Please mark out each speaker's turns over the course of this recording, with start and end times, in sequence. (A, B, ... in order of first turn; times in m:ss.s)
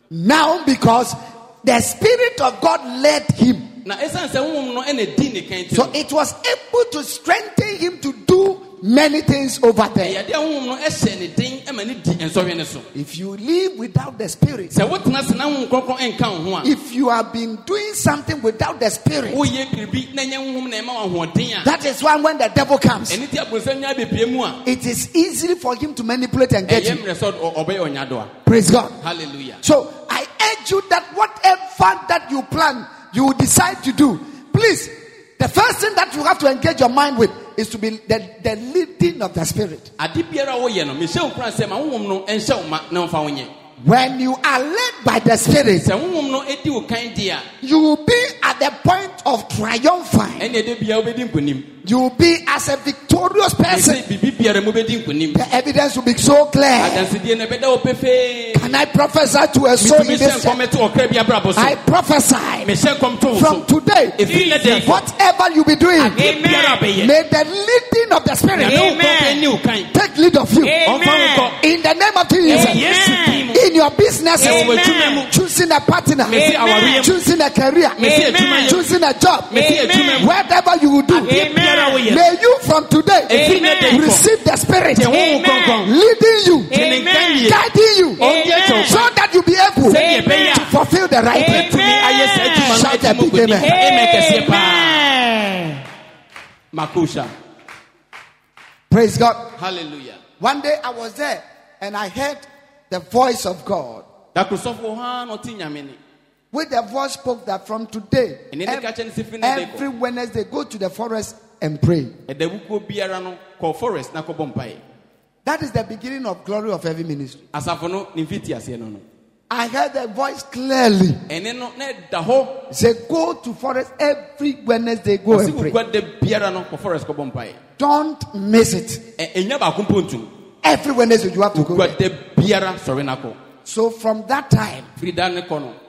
0:00.1-0:03.7 A
0:03.8-0:06.0 B
0:05.7-0:10.2 A
0:10.0-0:12.9 B
0:13.0-0:14.7 A
0:14.7-0:16.7 B
0:16.6-0:19.5 A
0:19.3-0:21.7 B
0:21.6-0:23.2 A
0:23.1-0:24.6 B
0:24.6-0:27.0 A
0:26.7-0:28.3 B
0:28.5-0:29.0 A
0:29.0-0:29.6 B
0:29.6-0:39.9 A
0:40.0-0:43.5 B
0:43.8-0:45.9 A
0:45.8-0:47.5 B
0:47.6-0:50.5 A
0:50.4-0:51.7 B
0:51.8-0:54.0 A
0:53.7-0:55.4 B
0:55.3-0:57.1 A
0:56.8-0:58.7 B
0:58.5-1:00.6 A
0:59.8-1:01.8 B
1:01.6-1:02.7 A
1:02.6-1:05.0 B
1:03.3-1:04.2 A
1:04.3-1:04.9 C
1:04.7-1:06.3 A
1:06.0-1:07.1 B
1:06.2-1:06.8 C
1:07.0-1:08.9 A
1:08.6-1:09.9 B
1:08.6-1:09.4 C
1:09.9-1:10.8 A
1:10.6-1:11.5 C
1:10.8-1:11.6 B
1:11.6-1:12.8 A
1:12.4-1:13.6 B
1:12.5-1:13.5 C
1:13.5-1:14.8 A
1:14.4-1:15.3 C
1:14.4-1:15.3 B
1:15.3-1:16.4 A
1:16.3-1:17.2 B
1:16.3-1:17.1 C
1:17.0-1:19.5 A
1:18.0-1:18.8 B
1:18.0-1:18.8 C
1:19.5-1:20.3 B
1:19.5-1:20.3 C
1:20.2-1:21.4 A
1:21.1-1:22.3 B
1:21.2-1:22.0 C
1:22.0-1:25.2 A
1:23.3-1:24.2 B
1:23.3-1:24.0 C
1:24.9-1:25.9 B
1:25.1-1:25.8 C
1:25.8-1:26.8 A
1:26.7-1:27.5 C
1:26.7-1:27.6 B
1:27.4-1:28.2 A
1:28.2-1:29.0 C
1:28.2-1:29.1 B
1:28.8-1:31.7 A
1:29.9-1:30.7 B
1:29.9-1:30.7 C
1:31.3-1:32.8 C
1:31.4-1:35.1 B
1:32.6-1:33.8 A
1:33.6-1:35.8 C
1:36.7-1:37.3 B
1:38.9-1:39.4 A
1:39.6-1:40.2 B
1:40.4-1:44.0 A
1:44.3-1:46.0 B
1:46.5-1:48.9 A
1:48.5-1:49.9 B
1:49.4-1:52.1 A
1:52.3-1:54.8 B
1:55.4-1:57.4 A
1:57.5-1:59.0 B
1:59.5-2:01.2 A
2:01.3-2:02.6 B
2:02.7-2:05.8 A
2:05.3-2:07.6 B
2:07.8-2:09.0 A
2:09.2-2:10.3 B
2:10.6-2:12.0 A
2:11.5-2:13.4 B
2:13.6-2:14.9 A
2:15.0-2:15.8 B